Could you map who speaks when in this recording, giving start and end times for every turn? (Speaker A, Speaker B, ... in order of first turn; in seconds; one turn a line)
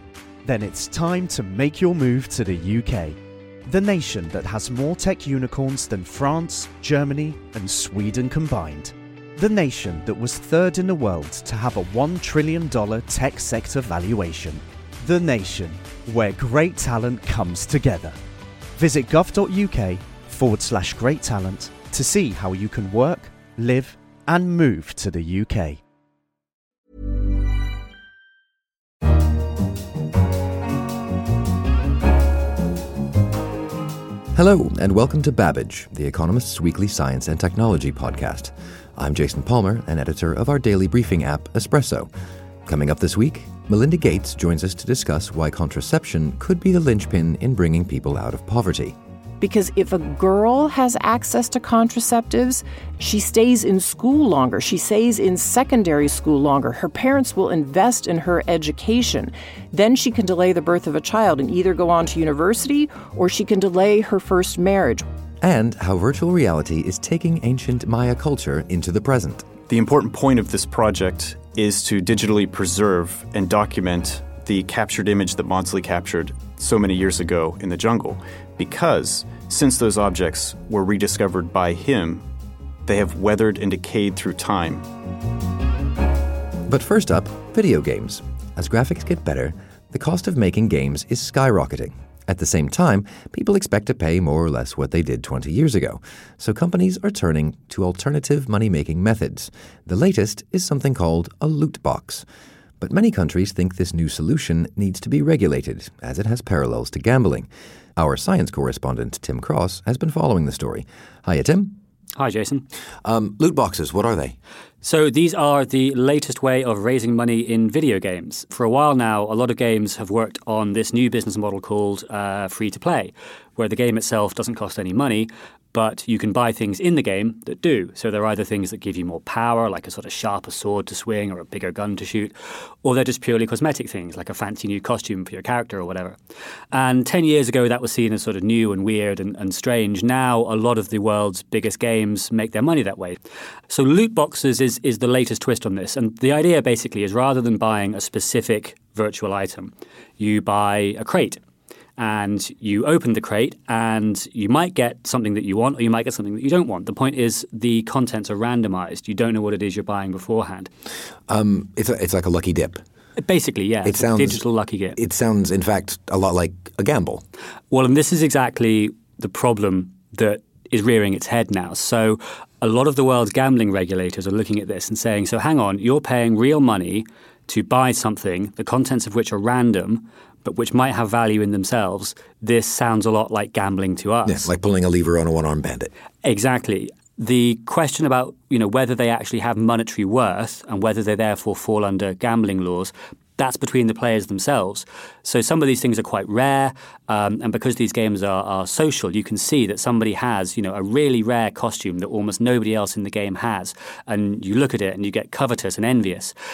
Speaker A: 0.4-18.2
Speaker A: 18.8-25.8
Speaker B: 34.3-42.1
Speaker B: 42.6-49.0
Speaker C: 49.4-65.0
Speaker B: 65.4-69.5
Speaker D: 69.7-82.2
Speaker D: 82.8-84.8
Speaker B: 86.7-102.2
Speaker B: 102.8-111.8
Speaker E: 112.1-112.6
Speaker B: 113.0-114.3
Speaker E: 114.8-136.2
Speaker E: 136.7-143.2
Speaker E: 143.7-151.4
Speaker E: 152.0-160.7
Speaker B: 161.3-162.8
Speaker E: 163.2-165.0
Speaker B: 163.8-164.4
Speaker B: 164.9-167.2
Speaker E: 167.7-184.5
Speaker B: 184.2-185.9
Speaker E: 186.2-206.3